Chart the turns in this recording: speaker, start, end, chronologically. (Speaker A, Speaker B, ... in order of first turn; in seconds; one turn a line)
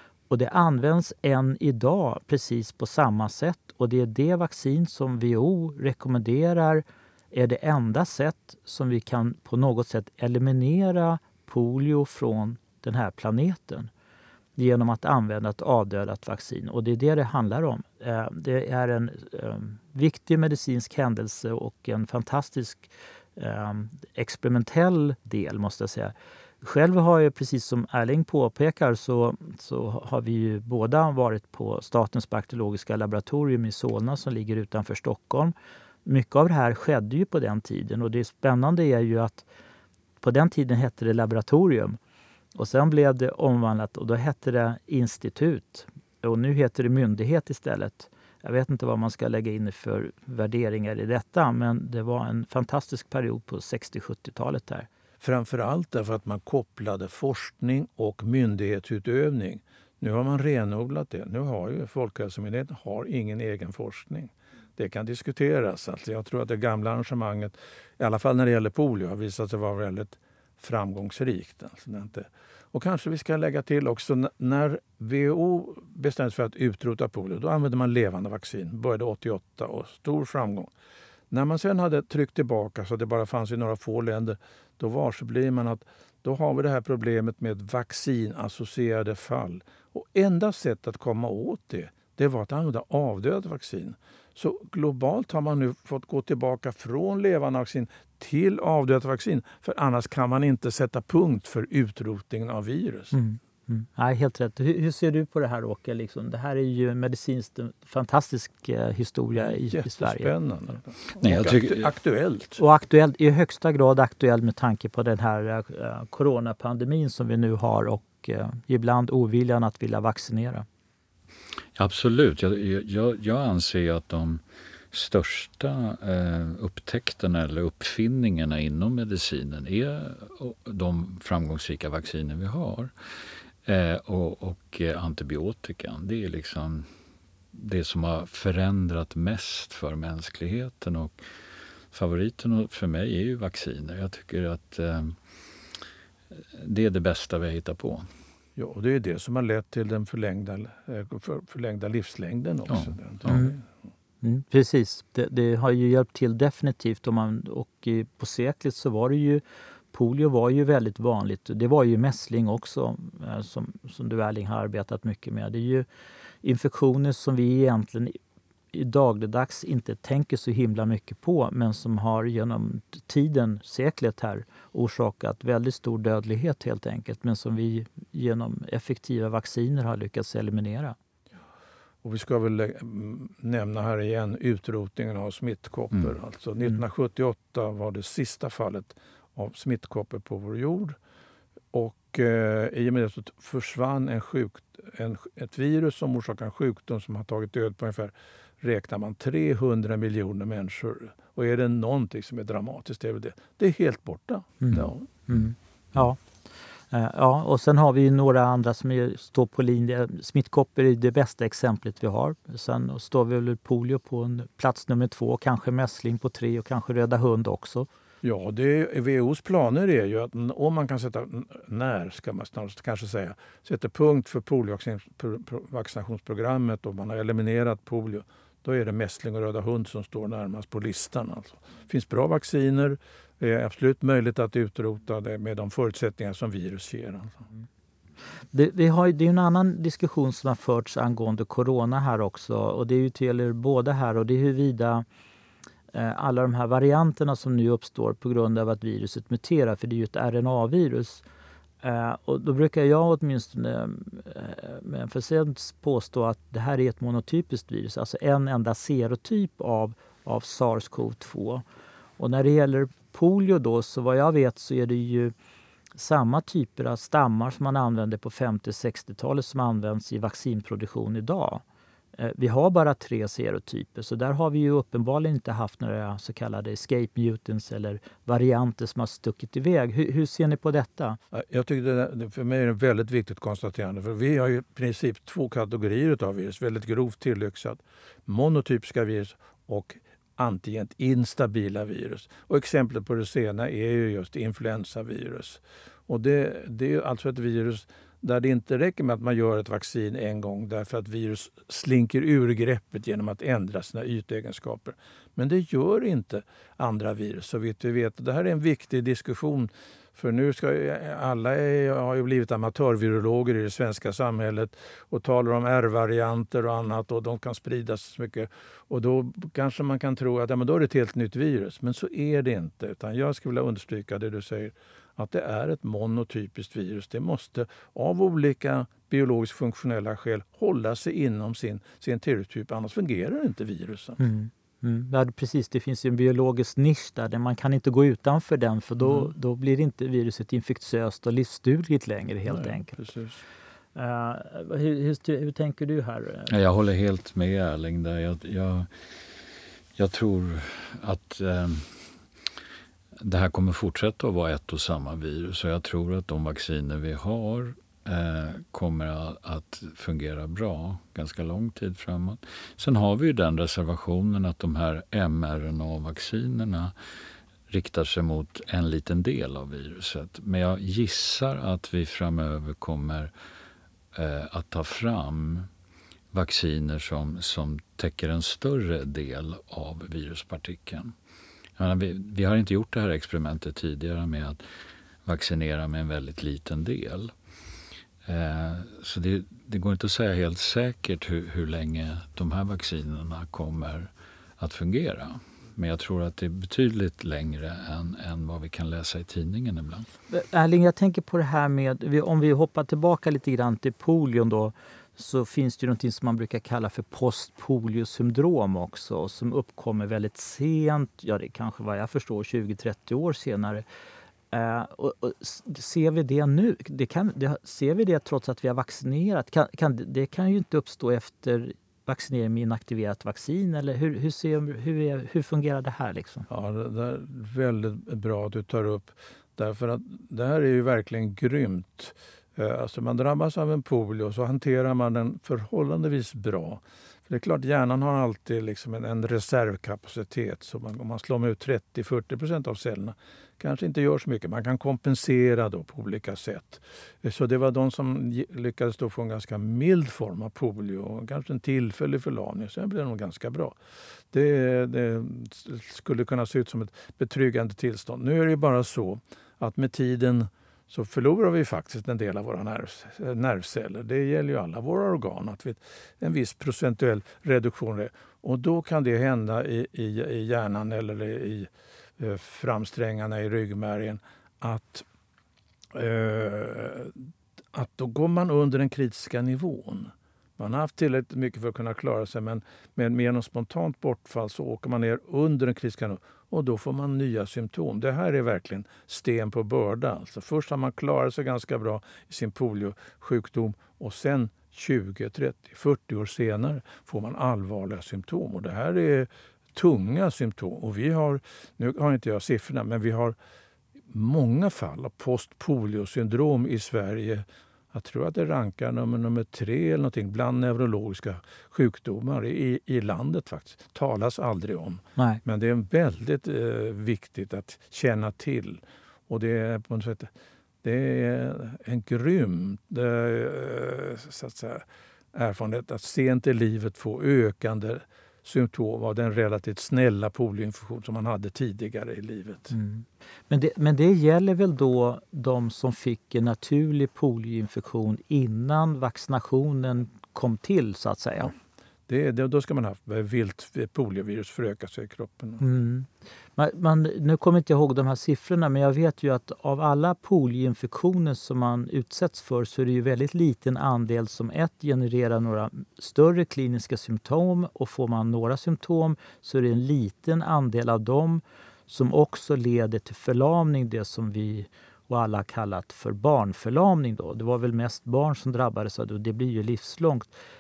Speaker A: 0.3-13.9
Speaker A: 14.6-35.5
Speaker A: 36.0-39.5
Speaker A: 40.2-42.0
Speaker A: 42.6-54.9
Speaker B: 55.2-80.7
Speaker B: 81.3-103.2
Speaker A: 103.1-110.3
Speaker B: 109.4-112.6
Speaker C: 111.2-111.9
Speaker A: 112.6-120.7
Speaker C: 121.8-136.9
Speaker C: 137.5-141.2
Speaker C: 141.9-145.2
Speaker C: 146.4-148.1
Speaker B: 148.6-153.6
Speaker C: 152.7-153.5
Speaker A: 153.3-153.6
Speaker A: 154.2-165.9
Speaker A: 166.4-168.2
Speaker A: 168.7-181.0
Speaker B: 182.0-191.0
Speaker B: 191.7-205.1
Speaker A: 204.6-206.2
Speaker A: 206.9-217.9
Speaker B: 218.2-237.5
Speaker A: 238.5-245.1
Speaker A: 245.9-251.2
Speaker A: 251.8-261.6
Speaker A: 262.2-265.3
Speaker A: 265.9-271.6
Speaker A: 272.2-281.2
Speaker B: 281.3-334.2
Speaker A: 334.2-342.9
Speaker B: 339.1-339.3
Speaker B: 342.5-343.4
Speaker A: 343.9-346.5
Speaker C: 346.5-349.4
Speaker C: 350.0-352.1
Speaker C: 353.2-366.9
Speaker C: 367.7-373.3
Speaker C: 374.1-375.7
Speaker C: 376.3-381.1
Speaker C: 381.8-384.6
Speaker C: 385.2-387.3
Speaker C: 388.2-400.1
Speaker A: 400.3-413.8
Speaker A: 414.5-426.5
Speaker B: 426.5-453.8
Speaker B: 454.3-475.1
Speaker B: 475.9-503.4
Speaker B: 504.1-520.3
Speaker B: 520.8-532.8
Speaker A: 532.7-541.5
Speaker B: 542.1-545.7
Speaker A: 545.6-570.3